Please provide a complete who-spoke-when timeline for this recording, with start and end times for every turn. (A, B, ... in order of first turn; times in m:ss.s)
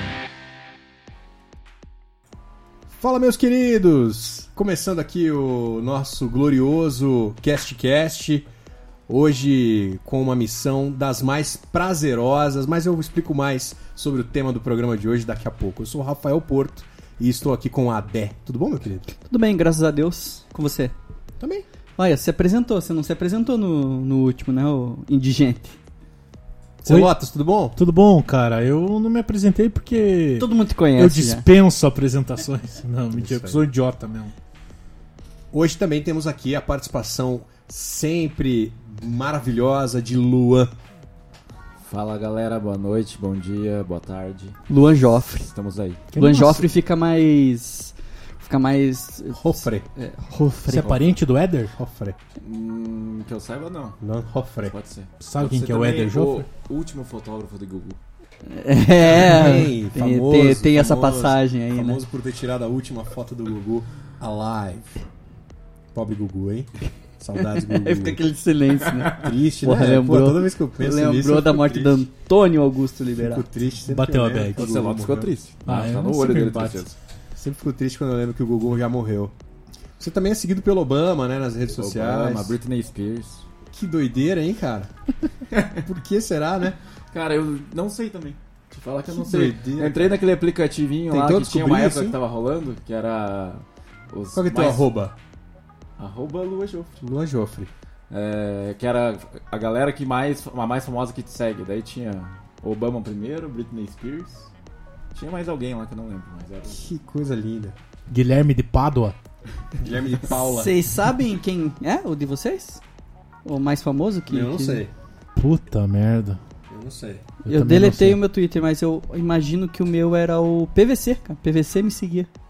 0:02.9-0:08.5 A
0:09.1-0:19.1 A
0:19.3-0:20.9 B
0:21.4-0:21.6 A
0:22.0-0:25.8 B
0:26.8-0:27.8 A
0:26.8-0:27.1 C
0:27.8-0:34.3 C
0:30.4-0:31.4 B
0:33.1-0:33.6 A
0:35.5-0:40.7 A
0:41.8-0:44.6 D
0:44.7-0:45.5 B
0:45.5-0:46.0 D
0:46.1-0:46.7 C
0:46.1-0:50.9 B
0:49.3-0:49.9 A
0:50.7-0:51.7 C
0:51.8-0:52.2 A
0:52.4-0:54.0 D
0:54.0-0:54.8 A
0:54.6-0:58.0 D
0:55.2-0:56.5 C
0:58.5-1:02.0 B
0:59.0-1:05.0 A
1:05.9-1:08.2 A
1:07.6-1:13.4 B
1:09.2-1:12.0 A
1:13.2-1:15.3 A
1:13.9-1:14.7 C
1:14.6-1:16.9 D
1:15.6-1:16.9 C
1:17.3-1:19.3 A
1:20.0-1:22.6 A
1:21.8-1:23.4 D
1:23.7-1:24.9 A
1:25.5-1:25.8 D
1:25.8-1:26.8 A
1:27.1-1:34.8 D
1:29.1-1:30.2 A
1:31.1-1:32.2 A
1:34.3-1:35.1 A
1:36.0-1:37.0 D
1:37.0-1:37.7 A
1:38.1-1:44.5 D
1:45.1-1:46.8 D
1:46.6-1:47.8 A
1:48.1-1:49.2 C
1:49.8-1:50.7 A
1:50.4-1:52.8 B
1:53.4-1:54.8 B
1:54.3-1:54.9 A
1:55.4-1:56.4 C
1:56.7-1:57.2 A
1:57.4-1:58.2 C
1:57.5-2:02.3 B